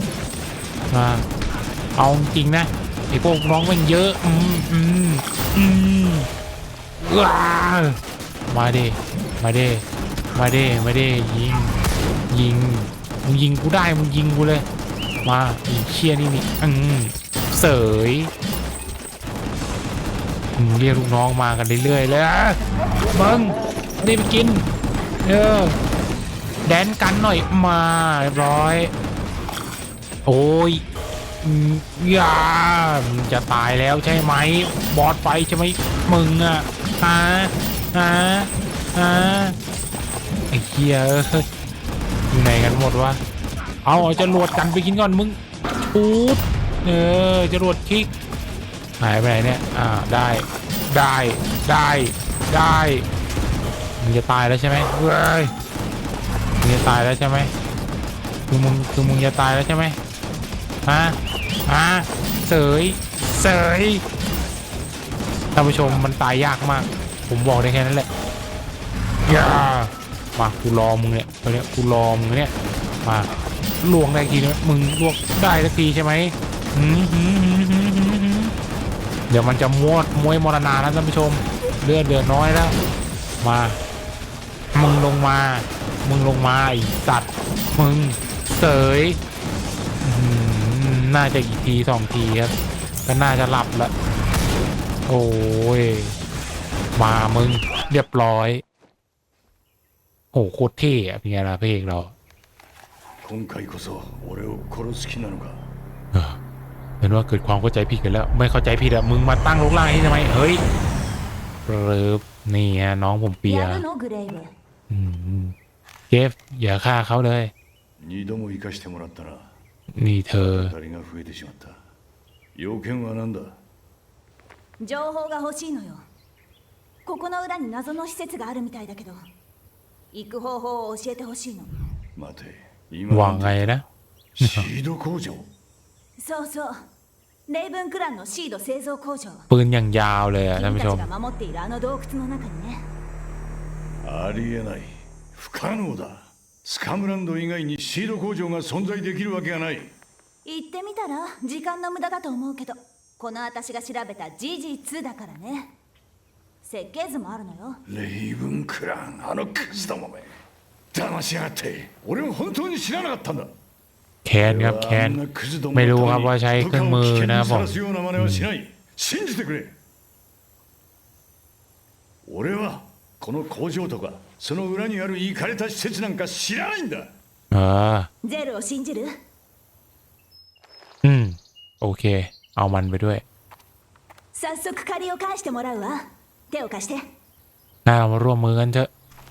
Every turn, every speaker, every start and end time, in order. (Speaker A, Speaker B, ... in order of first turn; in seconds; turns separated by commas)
Speaker A: 0.9-1.2, Speaker A: 2.0-6.3, Speaker A: 7.0-9.8, Speaker A: 10.3-11.8, Speaker A: 12.3-14.7, Speaker A: 15.2-18.3, Speaker A: 20.6-22.6, Speaker A: 23.1-24.6, Speaker A: 25.2-25.8, Speaker A: 26.6-28.9, Speaker A: 30.3-30.8, Speaker A: 31.4-39.6, Speaker A: 40.5-41.5, Speaker A: 42.3-43.2, Speaker A: 43.9-48.1, Speaker A: 49.0-53.1, Speaker A: 54.0-55.5, Speaker A: 56.6-57.5, Speaker A: 58.5-60.0, Speaker A: 60.9-61.2, Speaker A: 61.7-64.0, Speaker A: 65.5-68.1, Speaker A: 69.3-72.5, Speaker A: 73.8-78.5, Speaker A: 79.3-82.8, Speaker A: 83.4-83.8, Speaker A: 84.7-89.2, Speaker A: 90.0-93.9, Speaker A: 95.1-96.2, Speaker A: 97.0-98.6, Speaker A: 100.3-102.1, Speaker B: 103.2-105.6, Speaker A: 106.1-106.4, Speaker A: 107.0-110.6, Speaker A: 111.7-113.8, Speaker C: 113.5-114.5, Speaker A: 114.9-115.5, Speaker A: 116.1-117.5, Speaker B: 118.0-119.5, Speaker A: 120.0-120.7, Speaker B: 120.3-121.9, Speaker B: 122.5-123.6, Speaker C: 124.8-126.0, Speaker C: 127.1-129.2, Speaker C: 130.1-131.7, Speaker B: 132.2-135.5, Speaker A: 133.1-133.8, Speaker A: 134.4-134.7, Speaker C: 136.2-136.8, Speaker C: 137.5-139.5, Speaker A: 139.5-141.1, Speaker C: 140.6-142.9, Speaker B: 144.0-149.9, Speaker C: 150.4-155.7, Speaker C: 156.6-157.8, Speaker B: 157.9-160.3, Speaker B: 160.9-163.5, Speaker A: 164.2-165.2, Speaker B: 164.4-169.8, Speaker A: 165.7-168.5, Speaker B: 172.2-177.1, Speaker A: 177.5-178.1, Speaker C: 178.2-179.1, Speaker A: 181.0-183.2, Speaker C: 184.3-187.0, Speaker A: 187.9-188.9